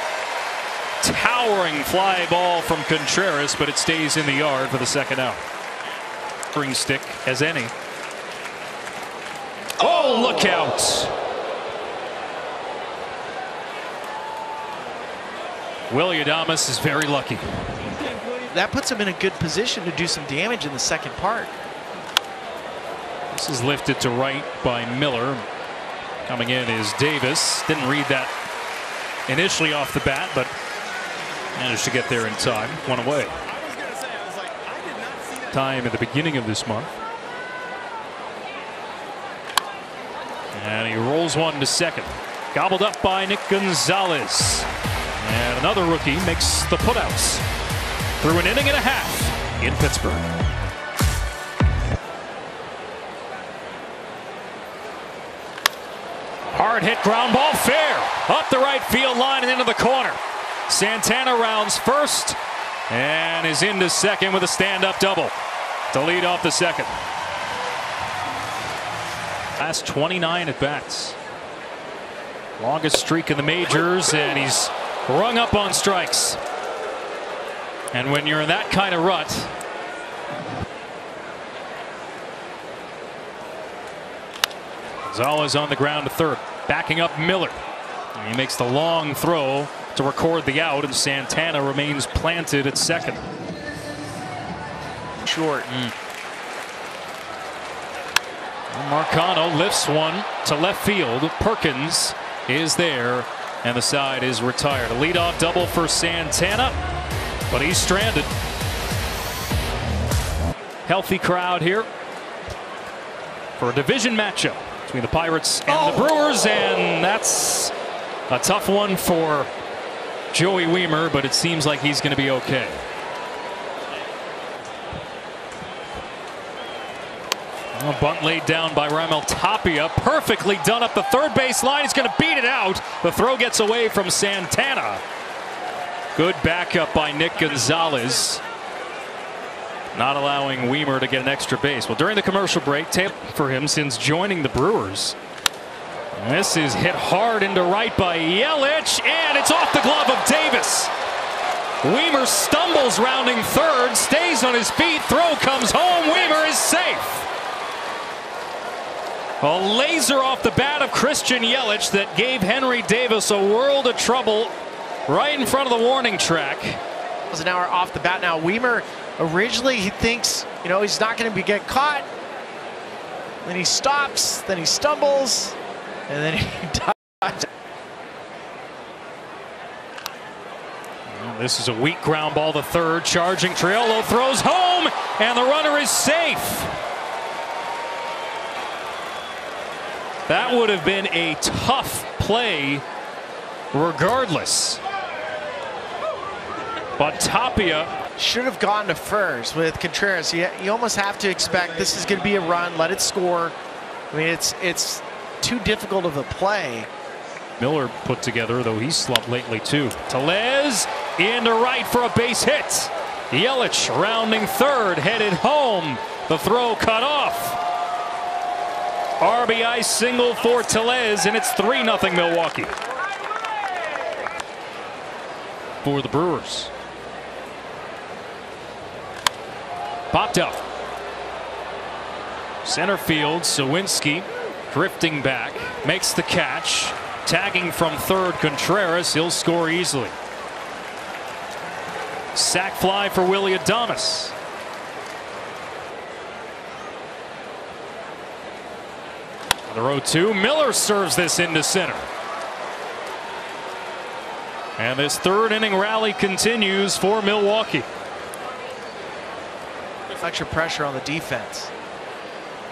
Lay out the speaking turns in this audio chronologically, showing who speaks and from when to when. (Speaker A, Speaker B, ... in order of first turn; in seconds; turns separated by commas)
Speaker A: 1.0-5.4, Speaker A: 6.5-7.7, Speaker A: 9.8-11.1, Speaker A: 15.9-17.4, Speaker B: 18.5-21.5, Speaker A: 23.3-25.4, Speaker A: 26.3-28.3, Speaker A: 29.3-30.5, Speaker A: 31.6-33.4, Speaker A: 35.5-36.9, Speaker A: 40.5-44.7, Speaker A: 45.2-47.4, Speaker A: 48.2-50.3, Speaker A: 56.5-62.4, Speaker A: 62.9-65.3, Speaker A: 65.9-66.9, Speaker A: 69.6-71.2, Speaker A: 72.6-76.4, Speaker A: 77.9-79.5, Speaker A: 85.0-87.6, Speaker A: 88.2-93.2, Speaker B: 95.2-95.7, Speaker A: 95.7-95.9, Speaker A: 98.7-106.8, Speaker A: 107.5-108.3, Speaker A: 110.9-111.9, Speaker A: 113.6-117.7, Speaker A: 118.3-119.5, Speaker A: 120.3-122.8, Speaker A: 127.8-135.0, Speaker A: 136.2-138.4, Speaker A: 139.9-145.2, Speaker A: 146.2-150.9, Speaker A: 151.8-157.3, Speaker A: 159.4-164.6, Speaker A: 165.1-166.8, Speaker B: 167.3-172.1, Speaker B: 173.4-175.6, Speaker B: 176.1-177.4, Speaker A: 181.1-186.7, Speaker A: 190.3-192.8, Speaker A: 193.7-194.8, Speaker A: 197.0-197.9, Speaker B: 198.2-203.6, Speaker B: 204.1-206.9, Speaker A: 207.6-217.6, Speaker A: 219.2-222.7, Speaker A: 225.8-226.7, Speaker A: 230.1-230.6, Speaker A: 232.6-240.2, Speaker A: 242.3-244.3, Speaker A: 249.7-252.1, Speaker A: 254.8-257.9, Speaker B: 260.2-261.7